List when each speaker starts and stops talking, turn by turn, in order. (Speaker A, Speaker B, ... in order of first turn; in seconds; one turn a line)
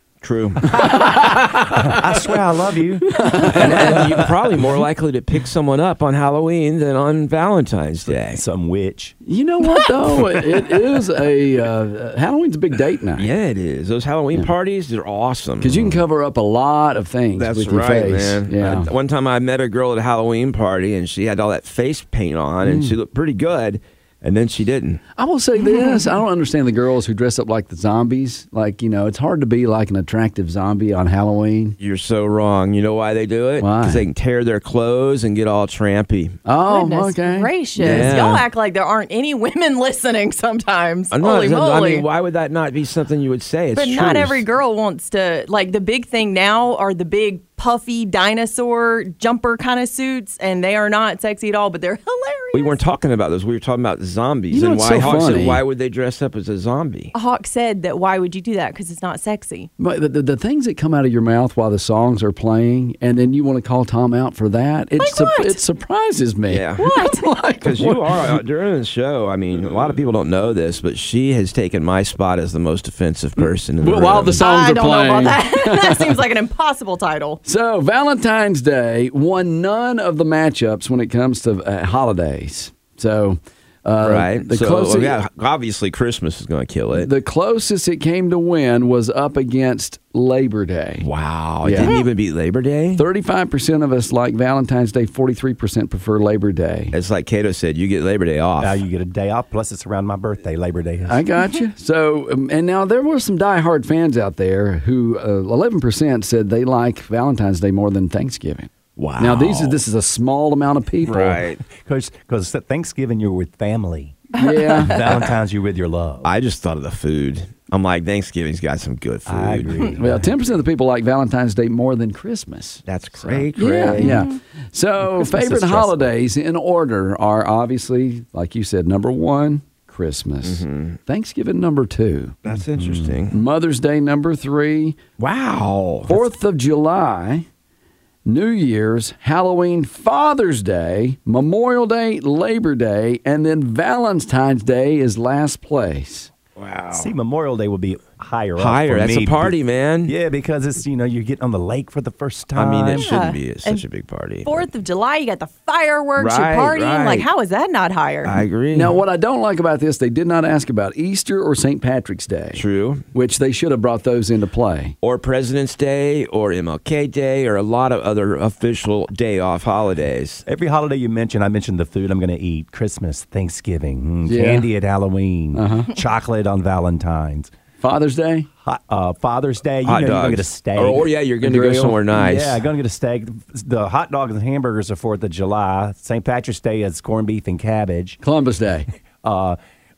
Speaker A: 0.2-0.9
Speaker B: 0.7-2.0
Speaker C: 1.6-4.3
Speaker B: 3.1-3.8
Speaker A: 3.5-8.4
Speaker C: 8.2-9.1
Speaker B: 9.2-13.2
Speaker A: 13.2-16.0
Speaker B: 15.6-18.9
Speaker A: 17.4-25.0
Speaker B: 22.6-22.9
Speaker B: 25.2-31.8
Speaker D: 25.7-26.1
Speaker A: 31.8-36.4
Speaker B: 33.6-34.0
Speaker B: 36.5-38.2
Speaker D: 36.6-42.0
Speaker A: 37.8-38.5
Speaker A: 41.1-44.4
Speaker D: 43.7-52.8
Speaker A: 52.5-57.1
Speaker B: 54.5-55.6
Speaker D: 57.1-59.7
Speaker B: 59.8-68.1
Speaker D: 65.0-65.6
Speaker A: 66.5-66.8
Speaker D: 66.8-67.3
Speaker A: 67.6-74.4
Speaker B: 73.4-76.1
Speaker D: 74.3-77.4
Speaker B: 77.4-85.2
Speaker A: 84.0-87.1
Speaker B: 86.9-91.1
Speaker A: 91.0-93.0
Speaker B: 91.6-91.9
Speaker B: 93.0-96.9
Speaker A: 96.9-98.8
Speaker C: 98.6-101.2
Speaker B: 101.1-111.4
Speaker A: 109.0-109.8
Speaker A: 111.0-111.6
Speaker C: 111.7-114.2
Speaker D: 114.3-114.9
Speaker B: 114.4-115.0
Speaker C: 114.8-116.3
Speaker A: 116.2-120.0
Speaker C: 119.2-120.3
Speaker B: 120.0-132.4
Speaker A: 122.9-124.2
Speaker D: 124.0-124.4
Speaker C: 125.2-126.0
Speaker A: 125.5-125.8
Speaker A: 130.4-131.0
Speaker A: 132.4-133.3
Speaker C: 132.8-133.1
Speaker B: 133.3-135.0
Speaker A: 135.2-136.2
Speaker B: 136.1-137.4
Speaker B: 138.2-146.3
Speaker A: 146.6-147.1
Speaker C: 146.9-153.1
Speaker A: 148.6-150.1
Speaker A: 152.5-154.7
Speaker D: 153.0-153.8
Speaker D: 154.4-158.4
Speaker A: 156.2-157.3
Speaker A: 158.2-159.0
Speaker B: 158.7-164.9
Speaker A: 162.5-163.0
Speaker A: 165.0-170.4
Speaker C: 170.4-177.5
Speaker B: 174.2-174.7
Speaker B: 175.5-175.9
Speaker B: 177.8-178.5
Speaker C: 178.6-181.1
Speaker A: 179.8-182.6
Speaker B: 181.4-182.0
Speaker C: 182.1-188.2
Speaker B: 188.2-188.9
Speaker C: 189.2-189.6